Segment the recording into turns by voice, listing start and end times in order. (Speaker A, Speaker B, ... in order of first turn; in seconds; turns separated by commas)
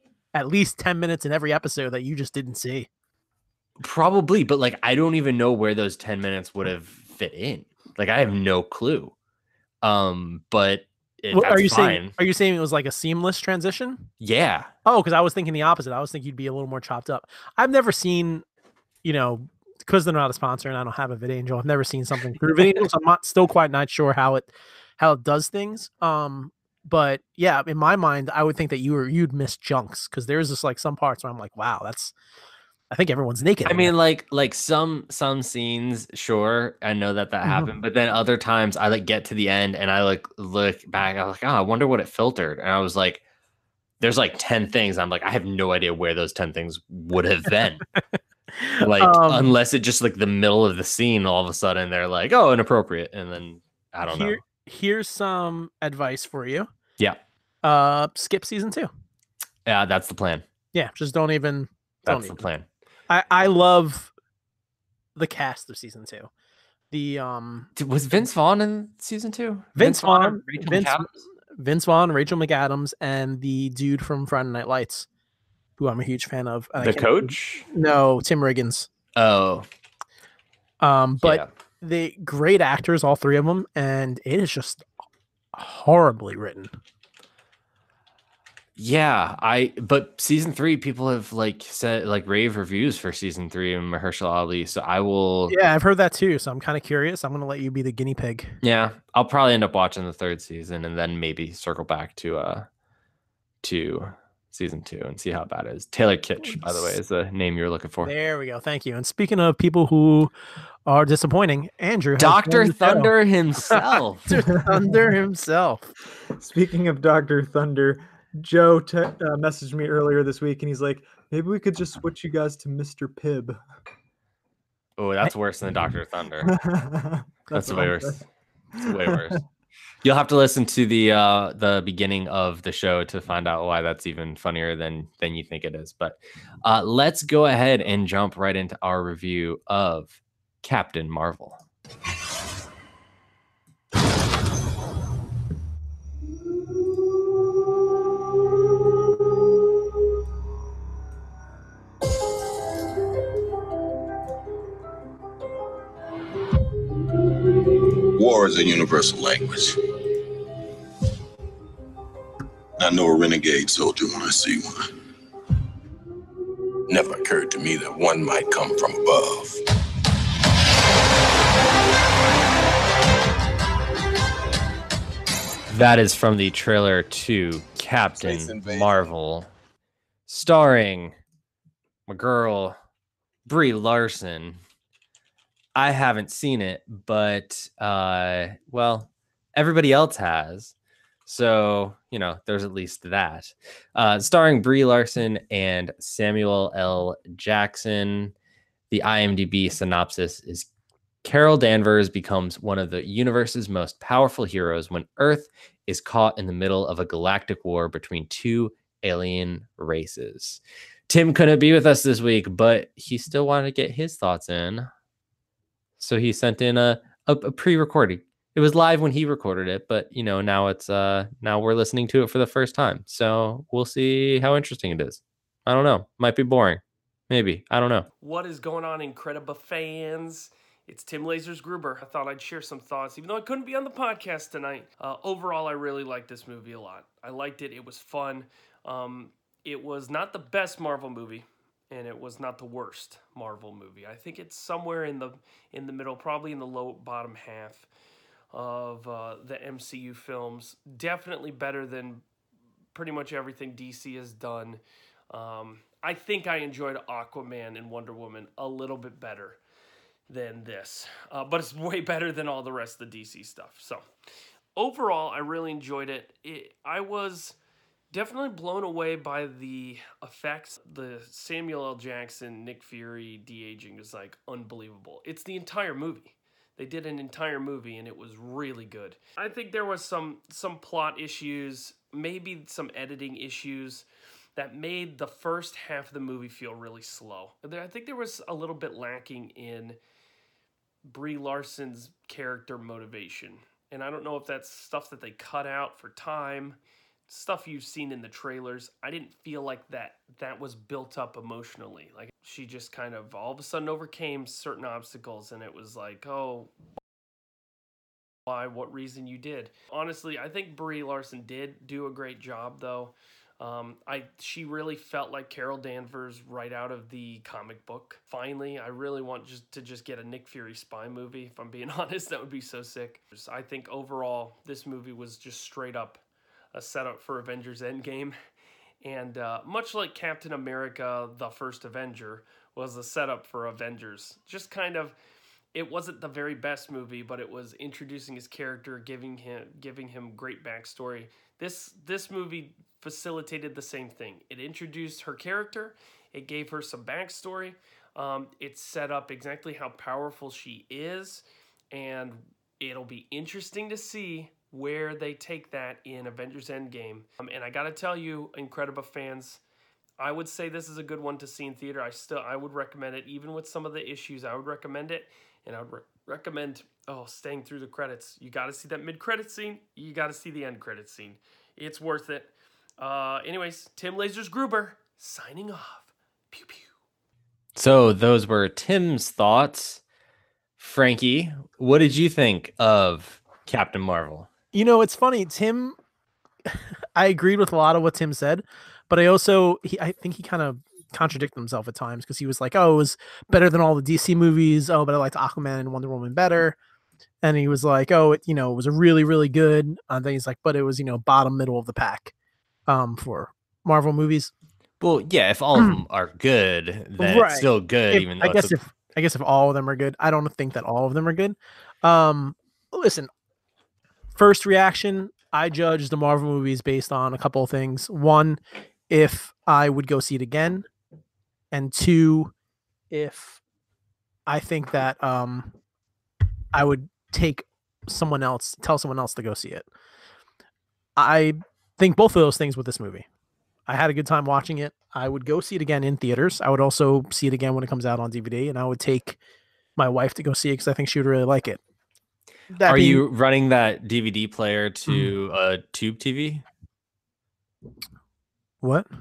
Speaker A: 0.3-2.9, Speaker B: 3.8-9.1, Speaker B: 9.8-12.1, Speaker A: 11.3-14.1, Speaker B: 14.2-14.7, Speaker A: 14.8-18.4, Speaker A: 19.0-32.1, Speaker A: 32.9-33.9, Speaker B: 33.6-43.2, Speaker A: 37.4-37.7, Speaker B: 44.0-47.8, Speaker A: 48.5-49.5, Speaker B: 48.8-54.4, Speaker A: 54.0-56.7, Speaker A: 57.6-58.9, Speaker B: 59.6-60.4, Speaker A: 60.7-62.4, Speaker B: 62.0-62.6, Speaker A: 63.1-64.1, Speaker A: 65.2-66.3, Speaker A: 66.9-67.7, Speaker B: 67.8-71.2, Speaker A: 69.8-75.1, Speaker A: 75.8-78.9, Speaker B: 76.8-77.6, Speaker B: 79.2-79.7, Speaker A: 80.8-84.9, Speaker B: 81.2-81.5, Speaker A: 85.5-86.7, Speaker B: 88.8-95.5, Speaker A: 95.5-98.5, Speaker B: 98.6-102.7, Speaker B: 103.6-108.1, Speaker A: 106.4-106.9, Speaker A: 108.0-110.3, Speaker A: 110.9-113.1, Speaker B: 112.2-114.5, Speaker A: 113.7-115.9, Speaker C: 116.4-123.6, Speaker B: 125.0-126.5, Speaker C: 126.4-128.2, Speaker B: 127.5-128.2, Speaker B: 128.8-129.4, Speaker C: 128.8-129.4, Speaker B: 130.0-141.6, Speaker D: 158.2-159.8, Speaker D: 162.8-164.8, Speaker D: 166.9-169.6, Speaker B: 175.7-179.5, Speaker D: 178.2-178.9, Speaker B: 180.3-181.2, Speaker B: 182.1-182.8, Speaker B: 183.4-184.6, Speaker B: 185.7-190.7, Speaker B: 191.2-198.3, Speaker B: 198.9-200.7, Speaker B: 201.2-214.9, Speaker B: 216.0-228.1, Speaker E: 228.2-247.9, Speaker E: 248.5-252.2, Speaker E: 252.9-259.6, Speaker E: 260.3-264.0, Speaker E: 264.8-267.6, Speaker E: 268.1-284.0, Speaker E: 284.6-290.0, Speaker E: 291.1-306.7, Speaker E: 308.5-326.2, Speaker E: 326.7-328.4, Speaker E: 329.0-335.1, Speaker E: 335.7-359.6, Speaker E: 360.2-376.9, Speaker B: 377.8-380.0, Speaker B: 380.8-384.5, Speaker A: 384.7-385.9, Speaker A: 386.7-396.8, Speaker A: 397.4-402.3, Speaker A: 402.9-404.5, Speaker B: 405.0-408.8, Speaker A: 407.2-413.3, Speaker A: 414.3-418.6, Speaker A: 419.1-420.9, Speaker A: 421.7-422.5, Speaker A: 423.1-423.6, Speaker A: 424.5-425.7, Speaker A: 426.7-429.9, Speaker A: 431.2-433.2, Speaker A: 433.9-439.4, Speaker A: 440.0-441.8, Speaker A: 442.7-443.2, Speaker B: 442.8-446.6, Speaker A: 448.8-449.1